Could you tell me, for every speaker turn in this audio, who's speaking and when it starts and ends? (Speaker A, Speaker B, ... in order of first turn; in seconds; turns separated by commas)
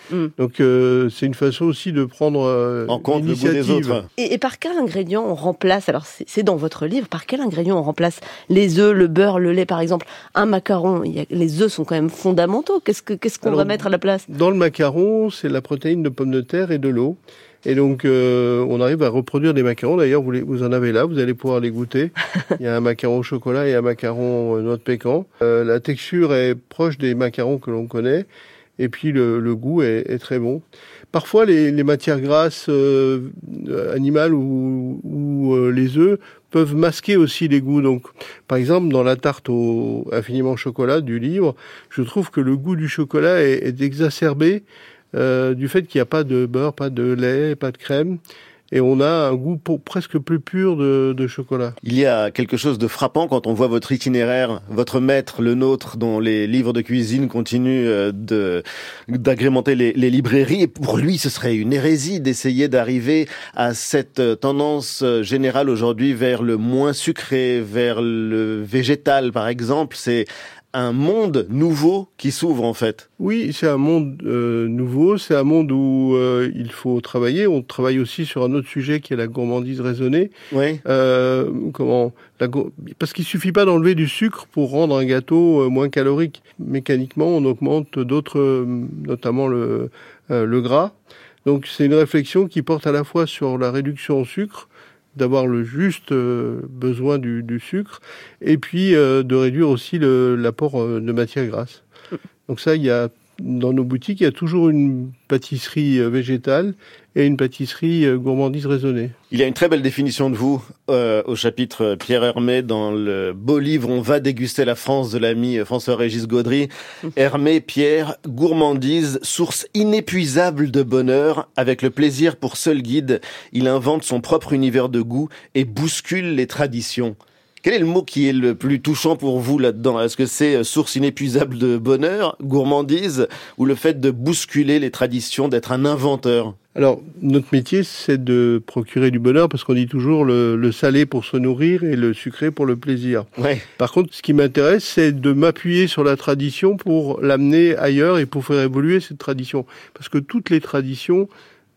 Speaker A: 0.4-4.0, Speaker B: 2.9-4.1, Speaker C: 4.2-14.2, Speaker A: 13.4-28.3, Speaker A: 28.8-48.2, Speaker A: 48.7-51.8, Speaker B: 51.8-73.0, Speaker A: 73.2-80.3, Speaker B: 80.5-80.8, Speaker A: 80.8-90.9, Speaker A: 91.5-101.8, Speaker A: 102.5-109.2, Speaker B: 109.3-136.6, Speaker A: 136.8-151.3, Speaker B: 143.4-143.6